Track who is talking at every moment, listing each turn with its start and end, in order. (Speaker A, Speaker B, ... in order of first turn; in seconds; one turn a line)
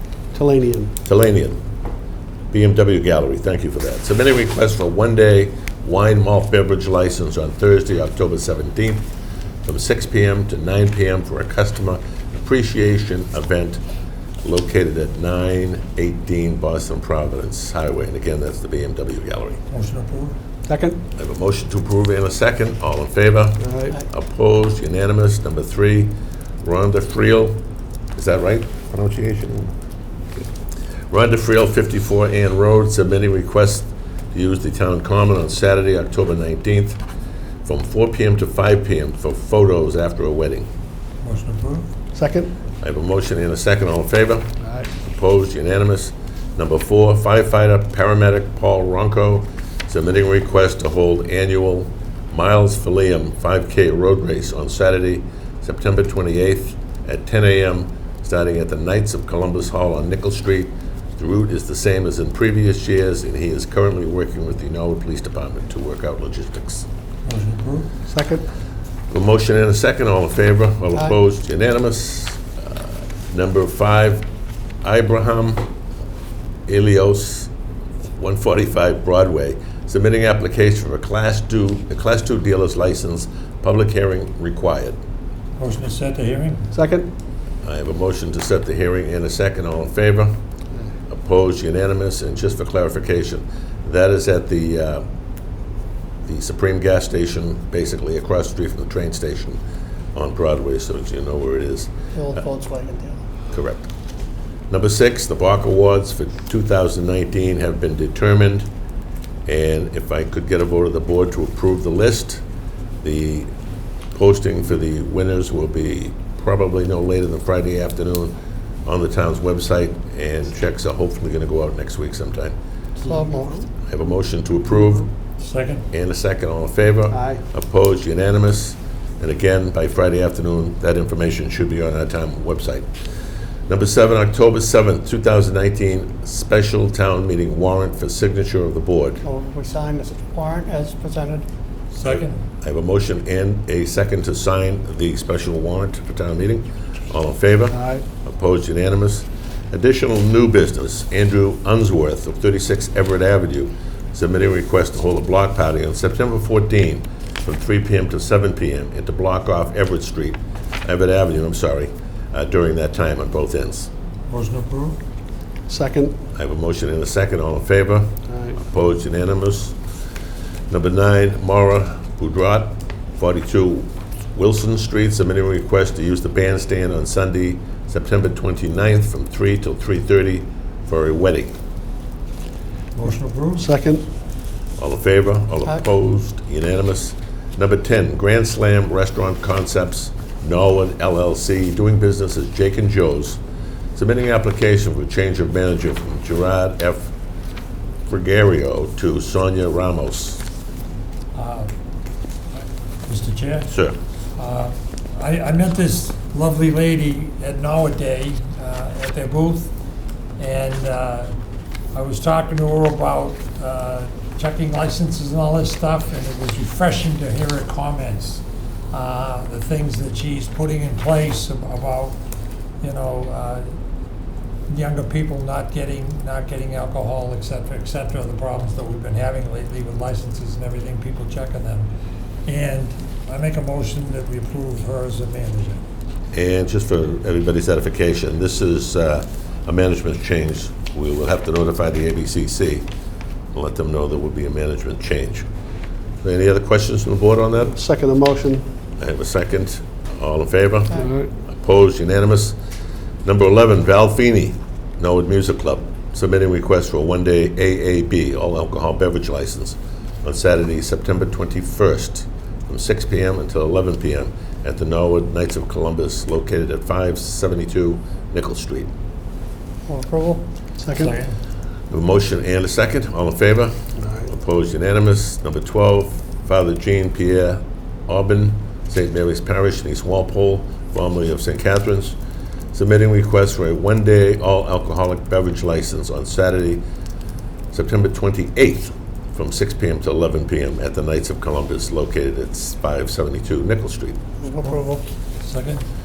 Speaker A: 0.3-0.9
Speaker B: 1.0-1.6
Speaker B: 2.5-9.1
Speaker B: 9.6-13.8
Speaker B: 14.4-19.6
Speaker C: 19.7-20.4
Speaker A: 20.6-21.0
Speaker B: 21.1-27.6
Speaker A: 23.6-24.0
Speaker B: 28.1-29.7
Speaker B: 31.1-37.0
Speaker B: 37.6-40.7
Speaker C: 41.2-41.9
Speaker A: 42.1-42.5
Speaker B: 42.8-66.9
Speaker C: 67.2-67.9
Speaker A: 68.1-68.5
Speaker B: 69.1-74.2
Speaker B: 74.8-75.7
Speaker B: 76.7-77.5
Speaker B: 78.2-85.0
Speaker C: 85.6-86.7
Speaker A: 86.7-87.1
Speaker B: 87.6-90.3
Speaker B: 91.1-95.0
Speaker B: 96.2-99.6
Speaker B: 100.1-102.4
Speaker D: 102.1-103.2
Speaker B: 103.5-103.9
Speaker B: 104.7-108.7
Speaker B: 109.5-112.4
Speaker B: 113.0-113.5
Speaker B: 114.1-118.3
Speaker B: 118.8-122.5
Speaker D: 123.0-123.6
Speaker B: 123.9-125.1
Speaker C: 125.4-125.8
Speaker B: 125.9-132.8
Speaker A: 127.1-127.4
Speaker B: 133.7-139.2
Speaker D: 139.2-141.4
Speaker C: 141.9-142.4
Speaker B: 142.0-163.9
Speaker A: 147.7-148.0
Speaker C: 164.3-165.0
Speaker A: 165.7-166.2
Speaker B: 166.3-169.8
Speaker A: 168.3-168.6
Speaker B: 170.7-181.6
Speaker C: 182.9-183.7
Speaker A: 183.6-184.0
Speaker B: 184.8-193.4
Speaker B: 193.9-197.1
Speaker B: 198.1-200.4
Speaker C: 201.3-201.7
Speaker C: 202.5-203.7
Speaker B: 203.7-204.0
Speaker C: 204.3-209.7
Speaker C: 210.4-211.3
Speaker C: 211.9-222.2
Speaker C: 222.8-223.7
Speaker C: 224.7-231.9
Speaker C: 232.4-235.8
Speaker B: 236.3-242.8
Speaker B: 243.5-245.4
Speaker B: 246.2-247.8
Speaker A: 247.7-248.7
Speaker B: 249.0-252.6
Speaker A: 250.9-251.3
Speaker B: 253.2-268.9
Speaker D: 269.9-270.4
Speaker A: 270.8-271.2
Speaker C: 270.9-271.3
Speaker B: 271.9-273.8
Speaker A: 274.0-274.3
Speaker B: 274.3-282.1
Speaker B: 282.7-286.8
Speaker B: 287.7-294.2
Speaker D: 294.4-295.0
Speaker C: 294.6-295.8